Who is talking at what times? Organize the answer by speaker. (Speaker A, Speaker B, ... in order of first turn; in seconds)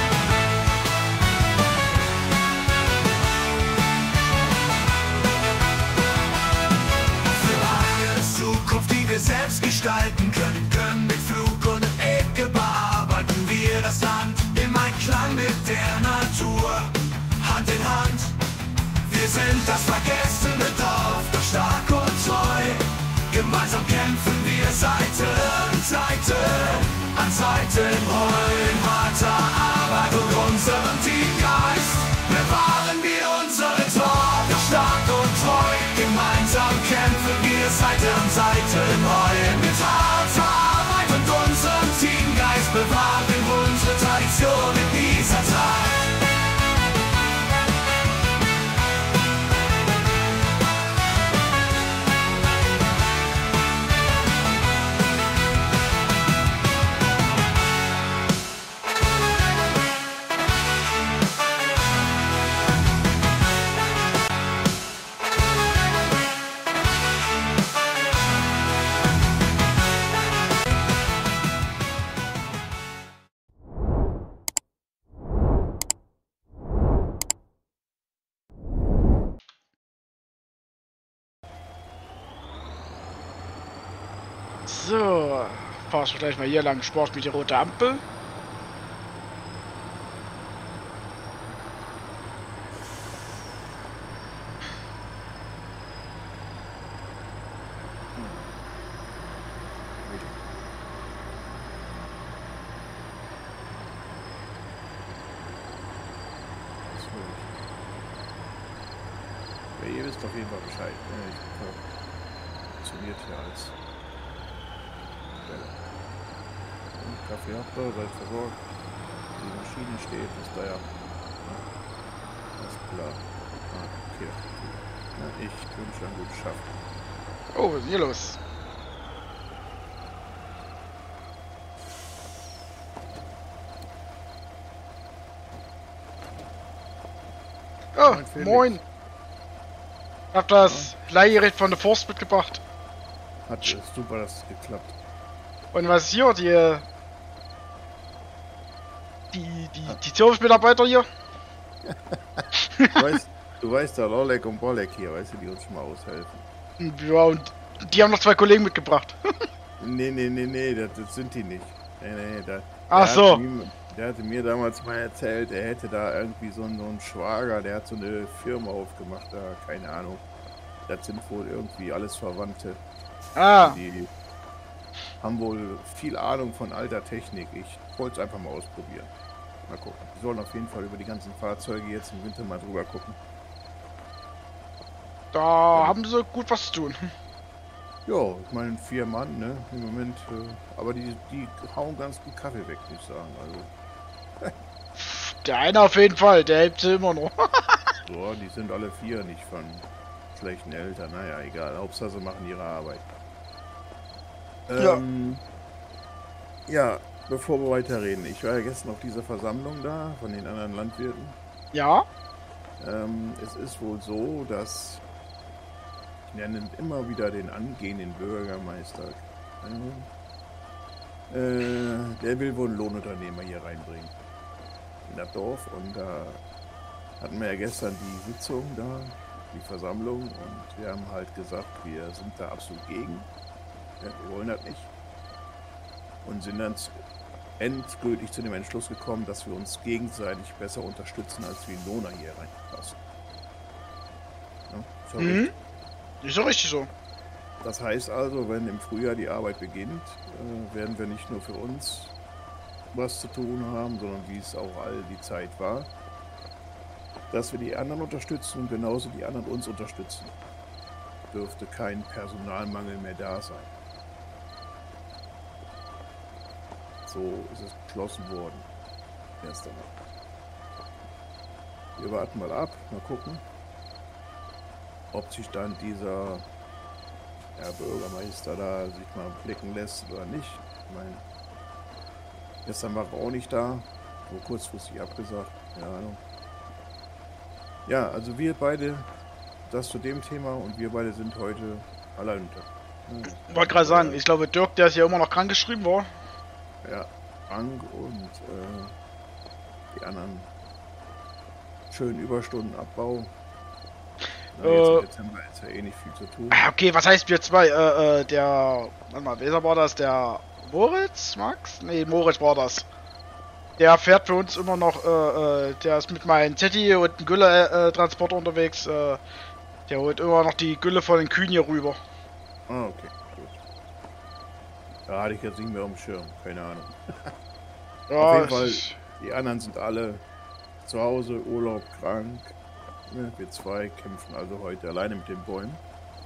Speaker A: 7.2-18.4, 18.9-46.2
Speaker B: 84.7-88.0, 127.5-128.4, 137.9-138.8, 140.3-142.6, 145.7-146.8, 149.3-151.1, 152.6-153.0, 156.8-159.2, 162.9-163.4, 173.4-173.8, 185.3-187.1, 195.0-197.8, 211.7-212.1, 245.2-245.5, 246.2-246.9, 293.5-296.1, 304.6-305.1, 306.5-312.9, 313.8-319.2, 319.9-322.0, 328.1-328.9
Speaker C: 98.1-98.5, 100.0-100.4, 106.8-107.5, 109.7-111.8, 112.8-113.8, 115.4-115.7, 117.0-118.6, 119.3-120.9, 122.6-126.7, 138.0-138.8, 140.6-140.9, 143.4-145.0, 151.8-156.4, 159.8-170.2, 170.9-172.8, 173.6-174.1, 175.2-179.1, 179.7-183.2, 185.7-186.0, 188.1-193.7, 198.1-203.1, 204.7-205.4, 206.7-211.4, 212.8-215.0, 216.3-220.1, 221.3-224.1, 225.1-226.4, 227.2-233.3, 234.0-234.9, 236.2-237.0, 237.6-243.0, 244.7-245.5, 247.6-252.1, 252.9-255.9, 257.3-260.3, 261.3-263.7, 267.1-268.7, 269.4-270.1, 272.0-273.4, 275.1-276.4, 277.6-281.2, 282.6-286.2, 287.9-289.1, 289.7-294.2, 296.8-298.9, 299.9-300.5, 301.9-303.3, 304.5-306.6, 322.7-323.6, 325.1-327.3, 328.2-330.2, 330.8-332.6, 333.1-335.8